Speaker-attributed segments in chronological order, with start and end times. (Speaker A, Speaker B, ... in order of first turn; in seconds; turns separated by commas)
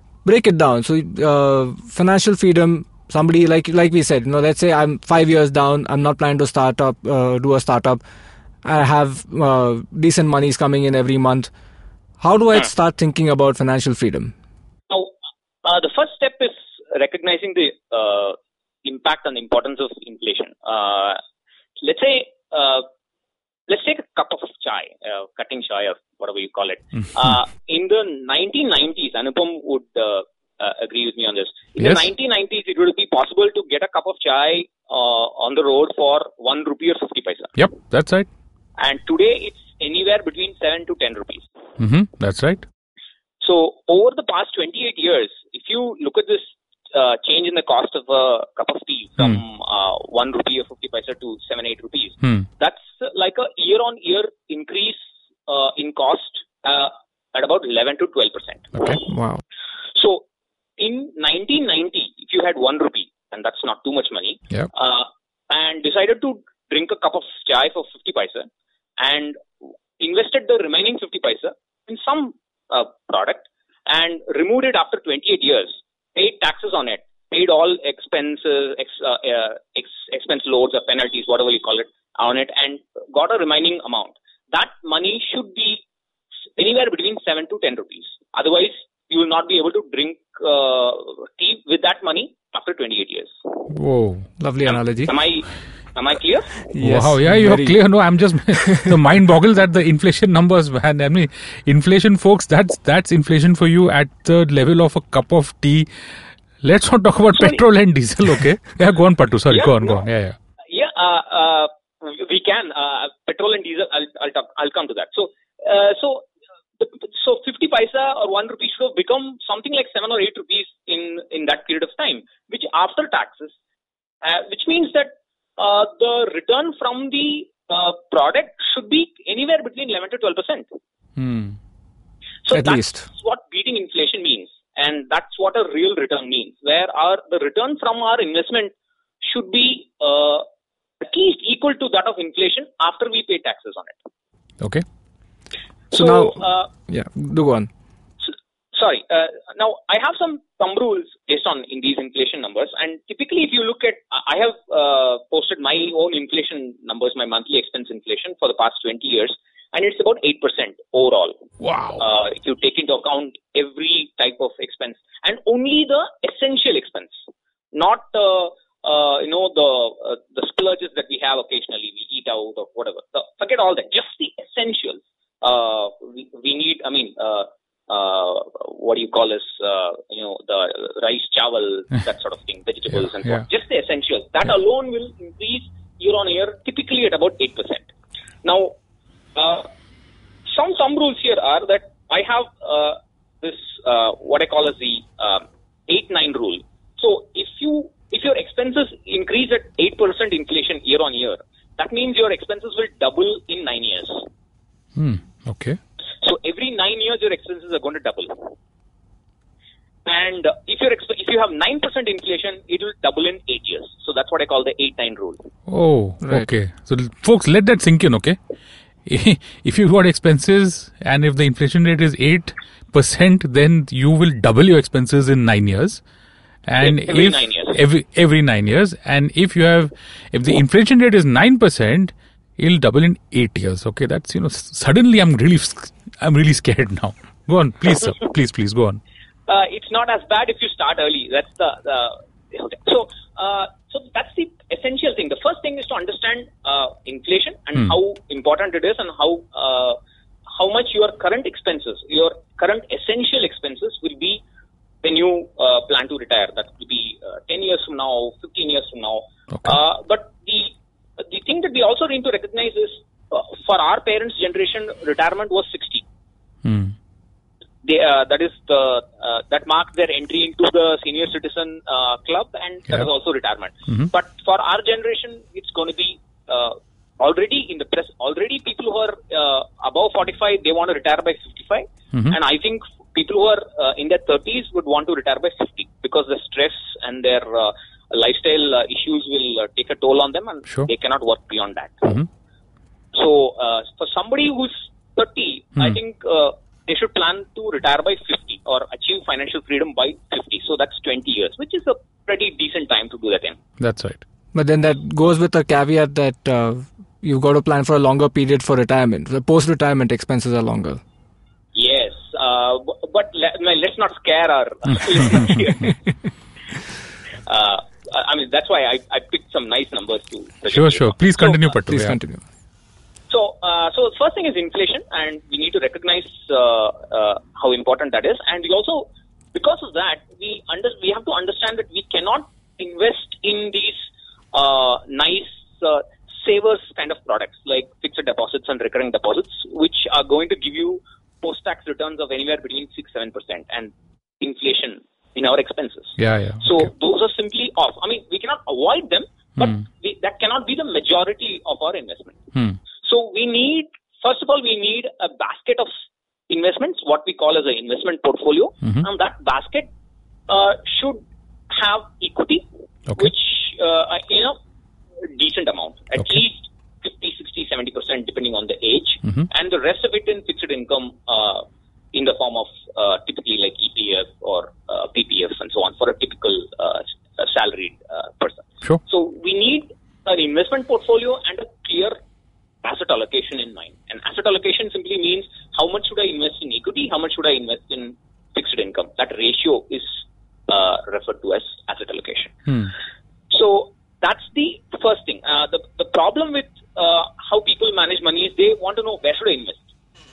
Speaker A: 0.2-8.0, Speaker A: 8.6-11.5, Speaker A: 12.2-14.3, Speaker B: 15.6-21.2, Speaker B: 21.8-22.9, Speaker B: 23.7-37.6, Speaker C: 31.8-32.1, Speaker C: 37.6-38.3, Speaker B: 38.8-41.5, Speaker C: 41.8-42.7, Speaker B: 43.4-58.8, Speaker C: 52.2-52.5, Speaker A: 59.1-59.4, Speaker B: 60.0-60.2, Speaker B: 60.8-69.5, Speaker B: 70.0-85.8, Speaker B: 86.6-93.3, Speaker C: 93.7-94.3, Speaker A: 94.4-95.1, Speaker B: 94.7-96.6, Speaker A: 96.7-97.8, Speaker C: 96.8-105.9, Speaker A: 98.6-98.9, Speaker C: 106.6-110.4, Speaker B: 107.3-107.6, Speaker B: 109.5-110.0, Speaker B: 110.7-116.3, Speaker B: 116.8-123.5, Speaker B: 124.2-130.7, Speaker C: 131.2-131.6, Speaker B: 132.4-140.4, Speaker A: 132.5-133.0, Speaker B: 141.0-144.0, Speaker B: 145.9-146.7, Speaker A: 145.9-147.7, Speaker B: 148.3-161.4, Speaker C: 161.6-162.0, Speaker B: 162.0-187.9, Speaker B: 188.4-188.8, Speaker B: 189.3-189.7, Speaker B: 190.5-204.3, Speaker C: 205.0-205.8, Speaker B: 206.2-208.5, Speaker B: 210.1-215.4, Speaker C: 215.7-218.4, Speaker A: 216.2-216.5, Speaker C: 219.1-226.0, Speaker C: 226.7-239.0, Speaker B: 226.8-227.8, Speaker B: 239.5-250.0, Speaker B: 250.5-254.4, Speaker B: 255.0-266.0, Speaker C: 266.6-266.9, Speaker B: 267.8-292.1, Speaker B: 293.1-303.6, Speaker C: 303.8-304.2, Speaker A: 304.5-311.0, Speaker B: 311.8-315.9, Speaker B: 317.5-321.6, Speaker C: 320.7-322.2, Speaker A: 321.9-322.4, Speaker B: 323.3-352.4, Speaker C: 346.2-346.9, Speaker B: 353.0-355.9, Speaker B: 356.5-359.9, Speaker B: 360.5-362.7, Speaker B: 363.2-364.6, Speaker B: 365.2-382.2, Speaker B: 382.8-392.6, Speaker B: 393.5-399.8